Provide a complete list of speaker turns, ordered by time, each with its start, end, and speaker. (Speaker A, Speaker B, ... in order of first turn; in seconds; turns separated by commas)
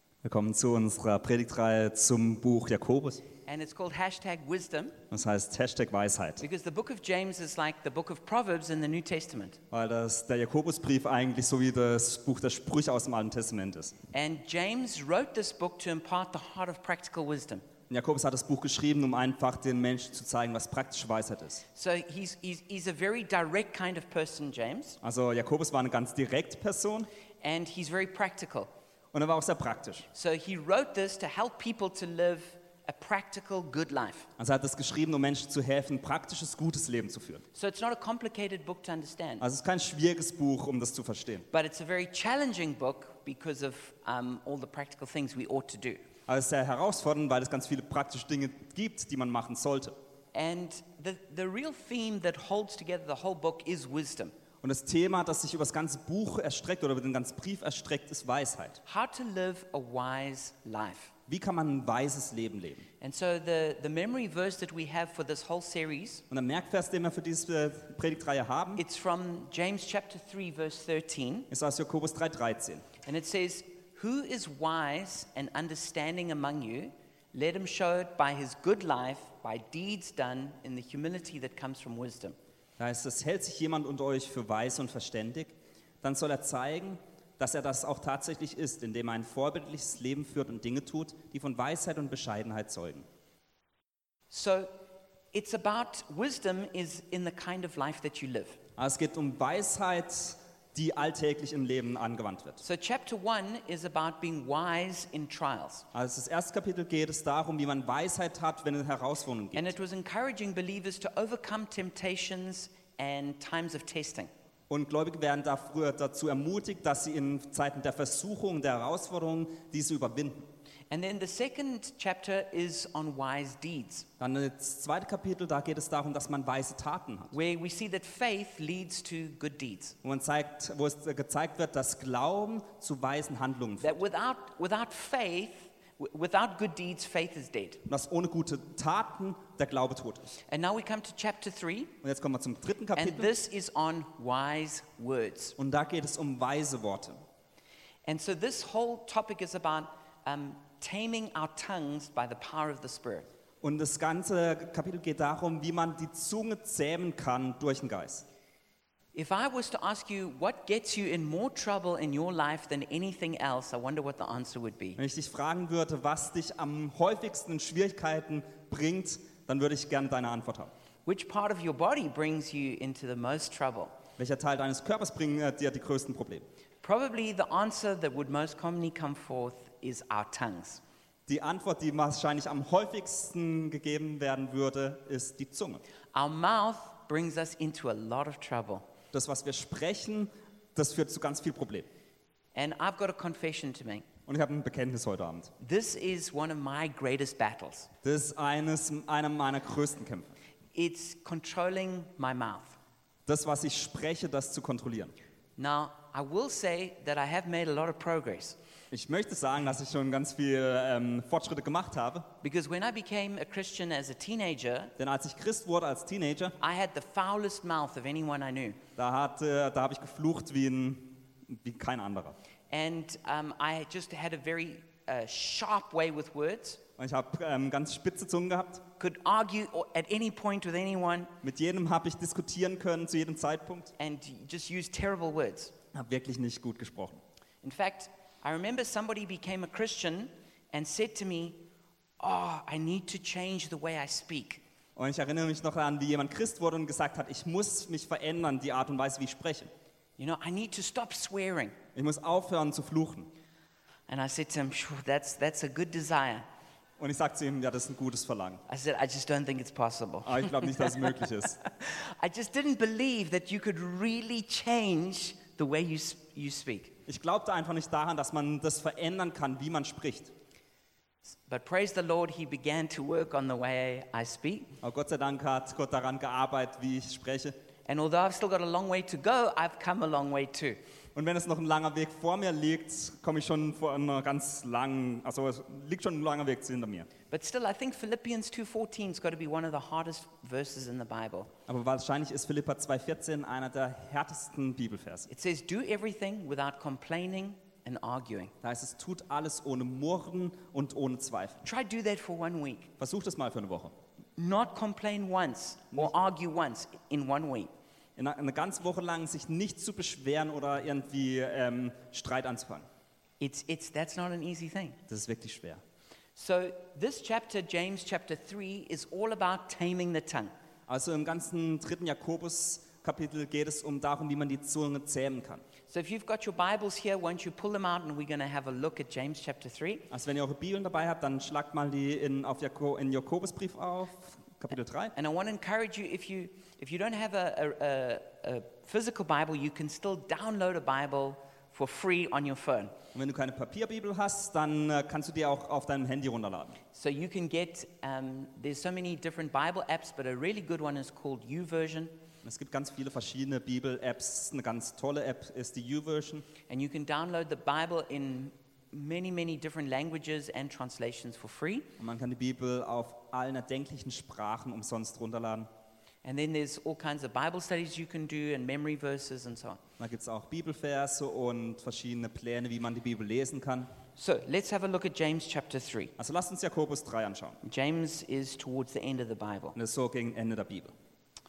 Speaker A: 0.2-3.2, Speaker B: 3.5-5.0, Speaker A: 5.1-6.4, Speaker B: 6.4-9.6, Speaker A: 9.7-14.0, Speaker B: 14.1-17.6, Speaker A: 17.9-21.6, Speaker B: 21.7-25.0, Speaker A: 25.0-27.1, Speaker B: 27.4-28.7, Speaker A: 29.1-30.1, Speaker B: 30.1-34.3, Speaker A: 34.4-37.4, Speaker B: 37.5-39.4, Speaker A: 39.4-41.5, Speaker B: 41.5-46.0, Speaker A: 46.3-50.0, Speaker B: 50.3-54.3, Speaker A: 54.6-58.8, Speaker B: 58.9-61.1, Speaker A: 61.3-62.9, Speaker B: 63.0-66.2, Speaker A: 66.3-68.8, Speaker B: 68.8-71.5, Speaker A: 71.5-72.9, Speaker B: 73.0-82.3, Speaker A: 82.8-93.1, Speaker B: 94.3-94.7, Speaker B: 95.3-98.6, Speaker A: 98.8-102.6, Speaker B: 102.6-105.9, Speaker A: 105.9-109.7, Speaker B: 109.5-114.3, Speaker A: 114.7-120.5, Speaker B: 120.9-124.1, Speaker A: 124.2-127.3, Speaker B: 127.3-129.9, Speaker A: 130.0-134.0, Speaker B: 133.8-137.8, Speaker A: 137.9-140.4, Speaker B: 140.5-141.9, Speaker A: 142.0-143.3, Speaker B: 142.9-145.6, Speaker A: 145.6-147.2, Speaker B: 148.1-153.3, Speaker A: 153.6-158.3, Speaker B: 159.1-165.0, Speaker A: 165.0-170.7, Speaker B: 171.1-174.0, Speaker A: 174.2-176.5, Speaker B: 176.8-180.8, Speaker A: 181.3-185.8, Speaker B: 186.1-188.8, Speaker A: 189.1-191.9, Speaker B: 192.6-194.1, Speaker A: 194.3-195.5, Speaker B: 195.6-197.9, Speaker A: 198.0-200.3, Speaker B: 200.7-202.8, Speaker A: 203.3-205.1, Speaker B: 205.6-208.6, Speaker A: 208.9-212.3, Speaker B: 212.4-214.9, Speaker A: 215.0-216.6, Speaker B: 216.6-218.8, Speaker A: 219.0-222.4, Speaker B: 222.7-226.8, Speaker A: 227.0-228.8, Speaker B: 229.0-231.3, Speaker A: 231.4-233.9, Speaker B: 234.0-235.7, Speaker A: 235.9-237.2, Speaker B: 237.6-241.6, Speaker B: 242.2-244.6, Speaker A: 245.0-249.7, Speaker B: 250.2-251.8, Speaker A: 251.9-253.3, Speaker B: 254.1-256.4, Speaker A: 257.0-258.6, Speaker B: 258.7-266.9, Speaker A: 260.2-261.6, Speaker A: 267.1-270.3, Speaker B: 271.5-274.7, Speaker A: 274.8-277.6, Speaker B: 277.9-280.8, Speaker A: 281.1-287.1, Speaker B: 287.3-291.5, Speaker A: 291.7-295.3, Speaker B: 295.3-298.5, Speaker A: 298.6-301.6, Speaker B: 301.6-302.9, Speaker A: 303.0-303.9, Speaker B: 304.4-307.7, Speaker A: 308.2-312.9, Speaker B: 313.4-315.0, Speaker A: 315.1-315.8, Speaker B: 316.4-320.5, Speaker A: 320.9-325.6, Speaker B: 325.9-330.1, Speaker A: 330.1-335.1, Speaker B: 335.1-342.9, Speaker A: 343.1-346.8, Speaker B: 346.9-352.2, Speaker A: 352.4-356.5, Speaker B: 356.7-361.9, Speaker A: 362.0-365.7, Speaker B: 366.2-369.8, Speaker A: 370.0-373.9, Speaker B: 374.2-376.1, Speaker A: 376.2-377.6, Speaker B: 377.6-379.8, Speaker A: 379.8-380.9